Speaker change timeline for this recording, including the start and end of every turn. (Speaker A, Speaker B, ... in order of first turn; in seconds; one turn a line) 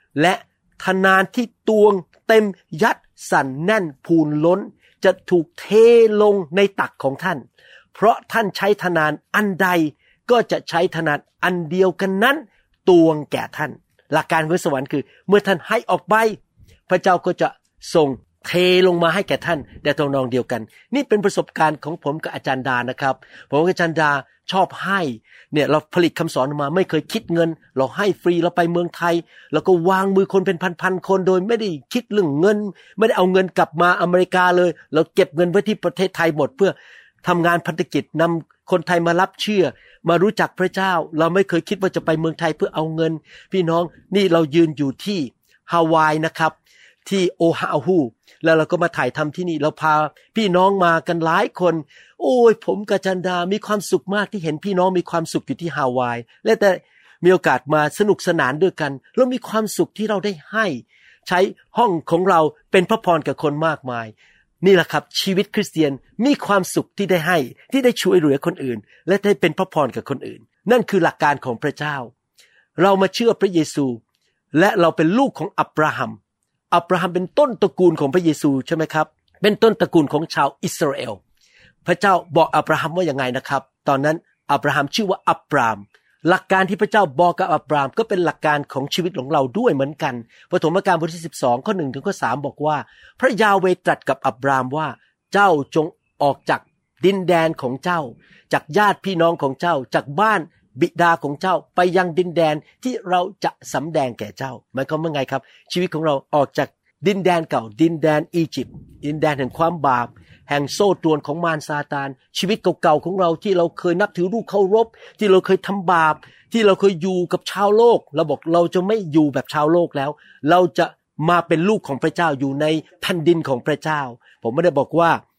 Speaker A: 0.1-72.1
Speaker A: 72.8-74.0
Speaker A: 74.5-76.2
Speaker A: 76.7-81.2
Speaker A: 81.8-125.2